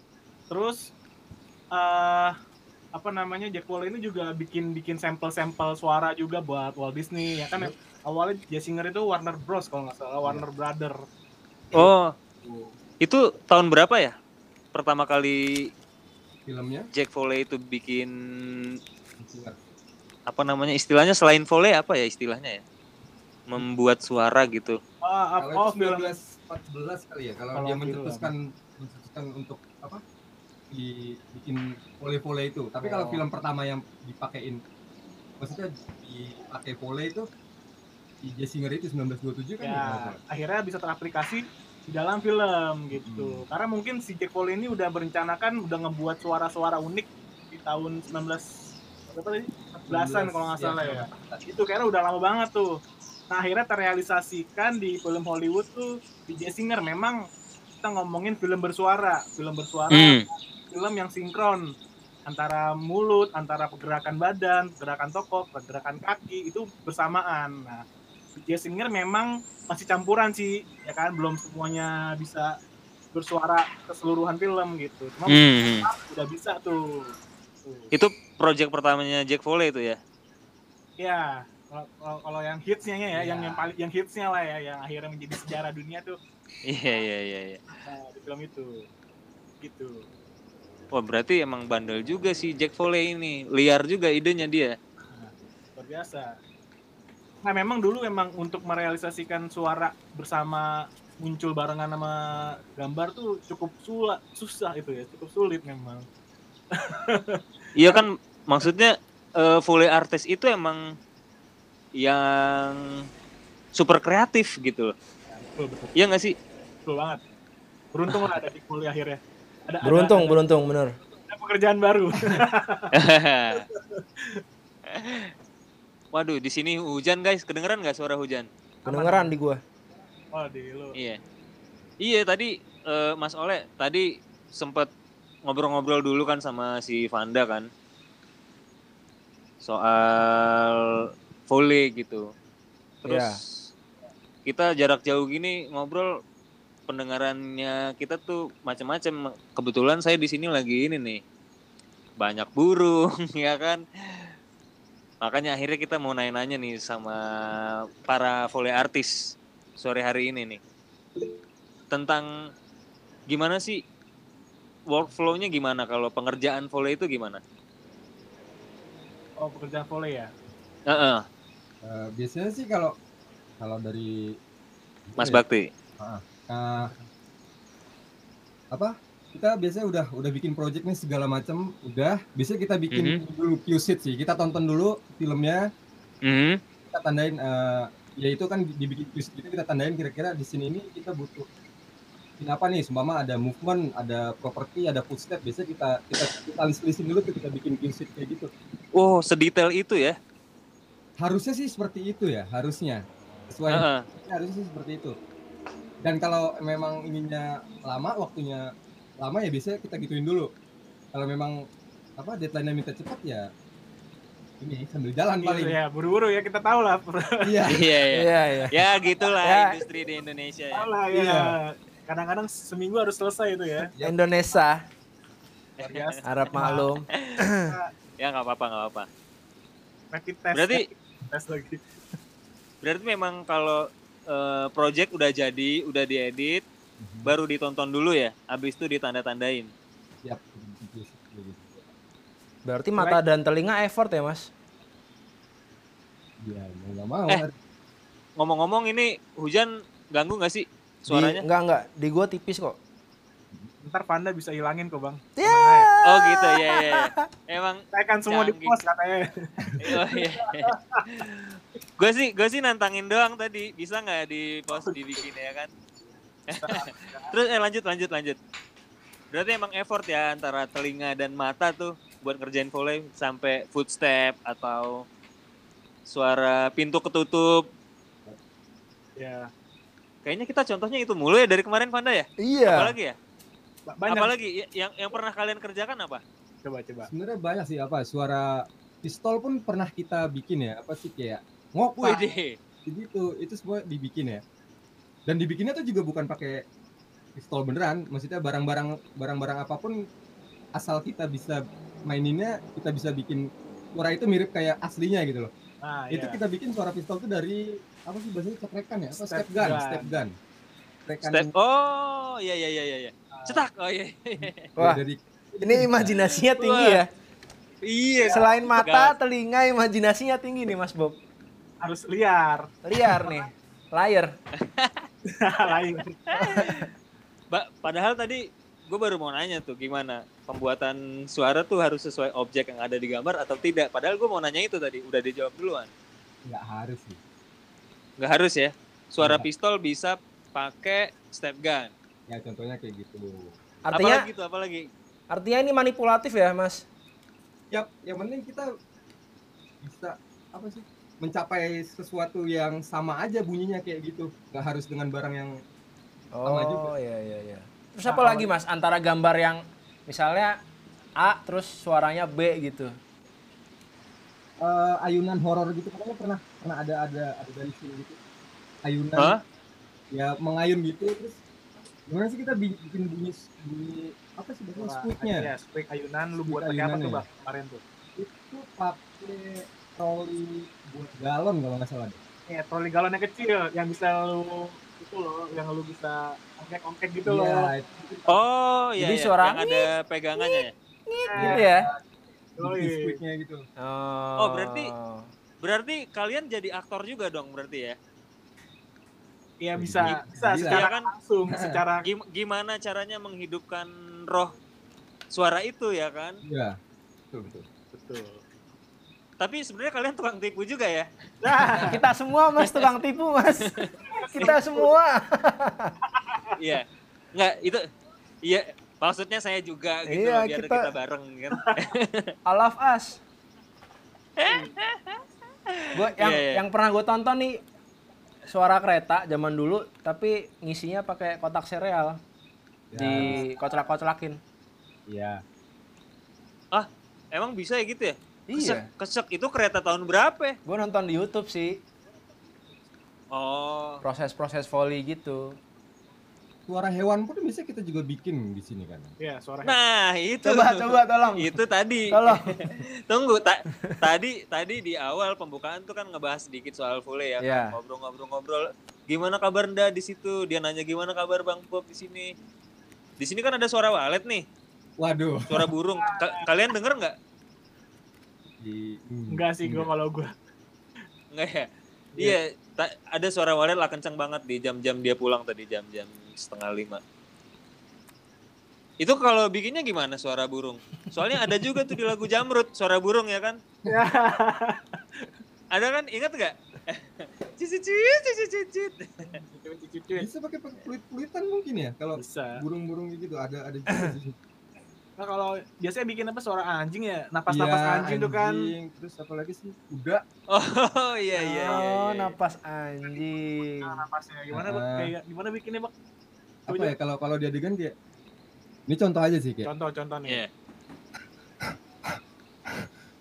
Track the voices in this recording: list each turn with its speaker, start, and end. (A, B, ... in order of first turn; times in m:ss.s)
0:00.5-0:00.9 A
0:01.7-0:02.3 A
0:02.9-0:11.0 A
0:11.7-0:12.1 B
0:12.4-0:12.7 A
0:13.0-0:14.1 B
0:14.7-0:15.7 B
0:16.4-0:16.9 C
0:16.9-0:18.8 B
0:19.2-0:19.6 C
0:20.3-0:22.6 B
0:23.5-0:24.8 B
0:25.0-0:26.1 A
0:25.4-0:30.0 C
0:27.5-0:28.3 A
0:30.7-0:34.6 C
0:32.9-0:33.1 D
0:35.4-0:37.2 C
0:38.2-0:40.2 C
0:39.6-0:48.4 A
0:42.9-0:43.4 C
0:49.1-0:52.7 A
0:49.9-0:51.4 C
0:53.3-0:57.2 A
0:57.8-1:01.7 A
0:59.9-1:00.2 B
1:02.3-1:07.8 A
1:08.3-1:12.5 A
1:13.1-1:17.1 A
1:15.3-1:15.9 B
1:17.6-1:17.9 A
1:17.9-1:20.0 B
1:21.0-1:26.2 A
1:23.1-1:23.7 C
1:26.6-1:27.6 B
1:27.8-1:28.9 A
1:29.6-1:30.0 A
1:30.9-1:34.7 B
1:35.1-1:36.3 A
1:37.4-1:46.0 A
1:46.7-1:48.0 A
1:47.8-1:50.9 B
1:52.0-1:52.8 B
1:53.7-1:54.9 B
1:55.3-1:56.0 A
1:56.0-1:56.3 B
1:56.8-1:57.2 A
1:57.9-2:00.4 A
1:58.1-1:58.3 B
1:59.8-2:00.9 D
2:01.3-2:02.9 A
2:02.9-2:03.6 B
2:03.5-2:04.4 A
2:04.9-2:05.3 B
2:06.1-2:08.5 B
2:08.8-2:09.3 A
2:08.8-2:09.6 D
2:10.3-2:10.9 A
2:12.0-2:14.9 B
2:15.4-2:17.7 B
2:19.6-2:20.8 B
2:21.5-2:22.2 B
2:23.0-2:23.4 B
2:23.0-2:23.4 D
2:24.4-2:26.1 B
2:26.9-2:31.2 B
2:32.2-2:34.3 B
2:35.2-2:39.1 B
2:39.8-2:40.6 B
2:41.9-2:42.2 B
2:43.3-2:43.8 B
2:44.9-2:47.4 B
2:49.4-2:50.3 A
2:50.9-2:51.2 B
2:51.8-2:52.9 C
2:53.6-2:54.3 C
2:55.1-2:55.4 C
2:55.2-2:55.7 B
2:56.0-2:56.9 C
2:56.8-2:57.1 A
2:58.7-3:05.6 C
3:02.9-3:03.2 B
3:06.2-3:06.6 B
3:06.9-3:11.4 C
3:12.4-3:18.5 C
3:19.0-3:20.2 B
3:21.2-3:25.1 C
3:23.7-3:24.0 B
3:26.0-3:28.7 C
3:29.2-3:30.5 C
3:31.1-3:31.6 C
3:32.2-3:33.4 C
3:34.6-3:35.8 C
3:35.4-3:37.6 A
3:37.4-3:37.8 C
3:37.7-3:40.9 B
3:38.1-3:38.8 D
3:39.4-3:39.8 D
3:40.7-3:43.9 A
3:44.0-3:44.8 D
3:45.8-3:46.2 B
3:45.8-3:46.9 A
3:46.2-3:47.6 D
3:47.6-3:47.9 A
3:48.2-3:49.1 B
3:50.1-3:51.8 A
3:50.5-3:50.8 B
3:52.8-3:56.6 B
3:57.0-3:57.3 C
3:57.2-3:59.7 B
4:00.2-4:01.9 C
4:02.7-4:04.5 D
4:06.4-4:07.6 C
4:08.4-4:11.4 B
4:11.1-4:12.8 D
4:13.8-4:15.9 A
4:15.4-4:17.2 D
4:16.0-4:18.8 B
4:17.9-4:21.2 A
4:19.8-4:25.7 B
4:24.7-4:25.0 A
4:26.5-4:27.3 A
4:26.6-4:28.4 B
4:29.3-4:35.0 B
4:36.1-4:37.6 B
4:39.2-4:39.5 A
4:40.2-4:43.2 B
4:42.4-4:42.9 D
4:43.9-4:44.3 A
4:44.1-4:46.2 B
4:46.6-4:47.1 A
4:47.0-4:52.2 C
4:52.0-4:52.6 B
4:52.9-4:54.4 C
4:55.3-4:56.6 C
4:57.4-5:00.0 C
5:00.8-5:05.5 C
5:05.8-5:06.4 A
5:06.1-5:10.3 C
5:09.2-5:10.2 A
5:11.0-5:11.5 C
5:11.2-5:14.7 B
5:13.3-5:13.7 A
5:14.4-5:16.3 C
5:15.6-5:17.1 D
5:16.6-5:17.0 B
5:17.8-5:19.1 B
5:18.2-5:18.5 A
5:18.3-5:21.2 D
5:21.8-5:23.4 A
5:22.8-5:24.3 D
5:24.6-5:25.1 B
5:25.3-5:26.8 A
5:26.3-5:26.8 B
5:27.5-5:35.9 B
5:36.4-5:37.2 C
5:38.2-5:41.9 B
5:39.2-5:39.4 C
5:42.3-5:43.6 C
5:43.8-5:44.2 D
5:43.9-5:44.9 B
5:45.3-5:46.8 D
5:47.7-5:48.7 C
5:49.8-5:55.5 C
5:56.3-6:00.5 D
5:56.4-5:56.9 C
5:58.0-5:58.5 A
6:01.2-6:02.9 D
6:04.6-6:08.2 C
6:08.8-6:09.4 C
6:10.1-6:11.4 C
6:12.1-6:15.5 C
6:14.8-6:17.8 A
6:16.4-6:17.2 C
6:18.2-6:22.2 C
6:22.5-6:27.7 A
6:27.3-6:28.5 C
6:28.3-6:30.7 B
6:29.0-6:31.9 D
6:31.3-6:31.6 A
6:31.3-6:32.0 C
6:32.6-6:33.6 C
6:32.6-6:33.2 A
6:33.8-6:35.3 D
6:34.4-6:34.9 B
6:35.6-6:38.0 B
6:39.6-6:42.0 A
6:39.8-6:40.8 C
6:40.7-6:41.1 B
6:42.0-6:44.5 B
6:45.3-6:46.4 B
6:46.4-6:46.8 C
6:47.3-6:47.6 C
6:47.9-6:48.4 A
6:49.4-6:51.1 B
6:51.4-6:52.0 A
6:51.8-6:55.9 D
6:54.0-6:54.9 A
6:56.1-6:56.5 A
6:56.6-6:57.8 B
6:58.4-7:02.3 B
7:00.1-7:00.8 D
7:02.4-7:03.2 D
7:04.4-7:05.2 B
7:05.8-7:06.6 B
7:05.9-7:07.6 D
7:08.5-7:12.2 D
7:12.9-7:13.4 C
7:13.0-7:14.4 D
7:15.1-7:15.4 C
7:16.7-7:20.6 B
7:18.5-7:18.9 D
7:20.6-7:21.8 D
7:23.3-7:24.0 B
7:24.0-7:25.6 D
7:26.7-7:29.1 C
7:29.2-7:29.8 A
7:29.6-7:42.3 B
7:30.4-7:31.5 D
7:32.1-7:32.6 D
7:37.4-7:37.8 D
7:43.2-7:44.4 B
7:45.0-7:45.7 C
7:45.5-7:47.1 B
7:46.0-7:46.4 A
7:48.6-7:49.9 C
7:49.3-7:50.3 A
7:51.3-7:51.7 B
7:52.2-7:57.0 B
7:59.0-8:03.6 B
8:03.9-8:05.3 A
8:05.7-8:09.4 B
8:09.4-8:10.3 A
8:10.1-8:14.4 C
8:12.2-8:12.6 A
8:15.2-8:18.6 A
8:17.5-8:20.2 C
8:20.5-8:22.3 B
8:21.4-8:21.7 A
8:21.7-8:24.0 D
8:23.8-8:25.9 A
8:24.5-8:25.1 C
8:26.7-8:27.9 C
8:28.9-8:29.7 C
8:29.6-8:30.4 A